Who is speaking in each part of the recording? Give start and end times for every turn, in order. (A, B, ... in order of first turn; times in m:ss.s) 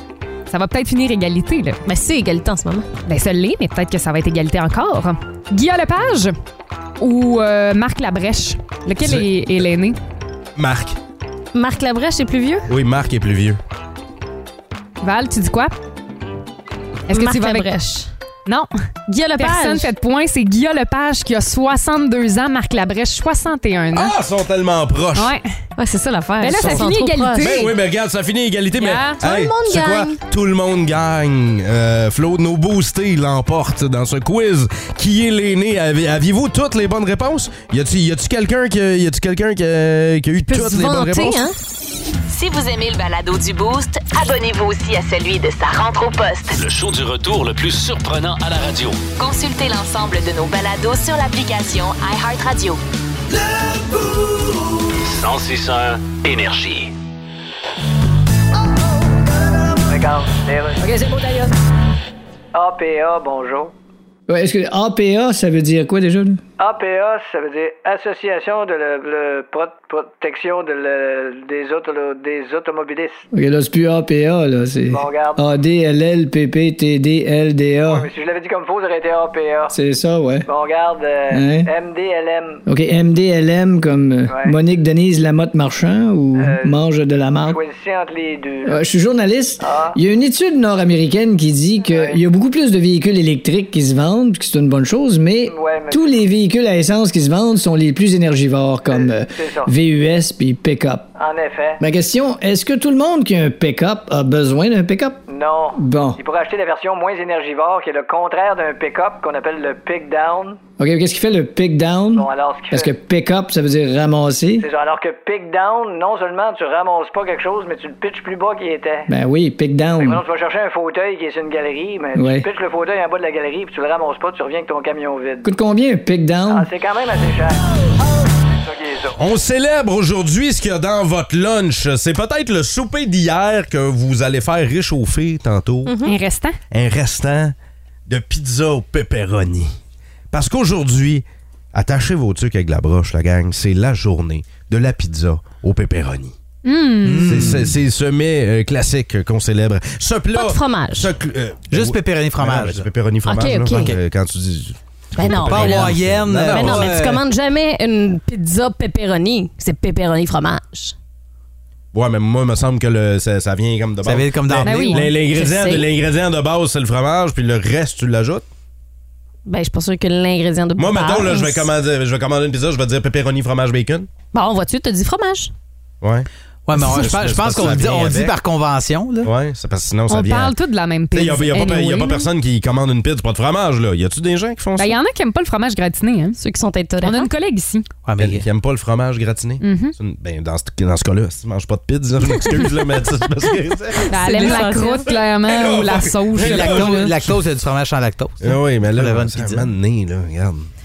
0:00.5-0:01.8 A
0:01.8-0:02.9 B
0:03.0-0:06.3 A
0:07.0-0:10.0 A
0:09.0-0:09.3 C
0:10.6-0:11.0 C
0:11.5-0:12.7 B
0:12.7-0:13.6 C
0:15.0-0:15.7 A
0:17.1-0:17.7 A
0:17.1-0:18.1 B
0:18.4-0:18.7 A
0:19.1-0:19.9 B
0:19.4-0:24.1 A
0:23.9-0:25.3 C
0:25.1-0:25.5 A
0:25.8-0:27.6 B
0:26.4-0:27.7 A
0:26.6-0:41.4 C
0:28.8-0:29.2 A
0:29.2-0:30.2 B
0:40.5-0:41.5 B
0:42.3-0:46.6 D
0:46.5-0:49.0 E
0:49.2-0:52.8 D
0:55.0-0:56.9 E
0:59.9-1:01.5 F
1:02.5-1:03.7 F
1:04.3-1:06.4 G
1:06.6-1:13.3 F
1:13.3-1:18.1 G
1:14.9-1:15.4 F
1:17.9-1:19.8 F
1:19.7-1:20.5 G
1:20.4-1:22.6 F
1:21.3-1:21.7 G
1:22.7-1:27.6 G
1:24.3-1:24.6 F
1:26.4-1:26.8 F
1:27.4-1:28.8 F
1:28.6-1:41.1 G
1:29.6-1:30.0 F
1:31.8-1:32.2 F
1:35.5-1:36.2 F
1:38.9-1:39.7 F
1:41.2-1:41.8 F
1:41.8-1:45.2 G
1:45.3-1:50.6 F
1:45.8-1:46.2 G
1:50.8-1:54.7 G
1:52.1-1:52.9 F
1:54.6-1:59.1 F
1:59.1-2:00.2 G
2:00.0-2:05.5 F
2:02.1-2:02.5 G
2:05.4-2:06.7 G
2:06.5-2:07.6 F
2:08.6-2:09.2 F
2:09.2-2:15.9 C
2:15.8-2:16.1 B
2:16.0-2:16.6 A
2:16.7-2:17.5 C
2:18.1-2:19.7 C
2:20.3-2:26.3 C
2:26.6-2:27.5 A
2:27.0-2:27.8 H
2:27.2-2:37.0 C
2:30.3-2:31.1 B
2:31.7-2:32.8 H
2:33.2-2:33.9 B
2:35.1-2:40.9 B
2:35.3-2:37.2 H
2:41.9-2:48.4 C
2:44.0-2:45.1 H
2:44.6-2:45.1 A
2:45.3-2:45.9 B
2:49.4-2:51.7 B
2:50.8-2:54.1 C
2:54.3-2:55.5 B
2:56.0-2:58.4 C
2:56.7-2:59.3 H
2:59.2-3:00.5 C
3:00.1-3:02.3 A
3:01.1-3:05.0 C
3:04.8-3:06.4 A
3:06.4-3:07.3 B
3:07.0-3:07.8 A
3:08.0-3:08.4 H
3:08.2-3:14.7 C
3:09.6-3:09.9 A
3:14.0-3:15.2 B
3:14.1-3:17.1 A
3:15.4-3:17.4 C
3:16.4-3:19.7 H
3:18.4-3:20.7 C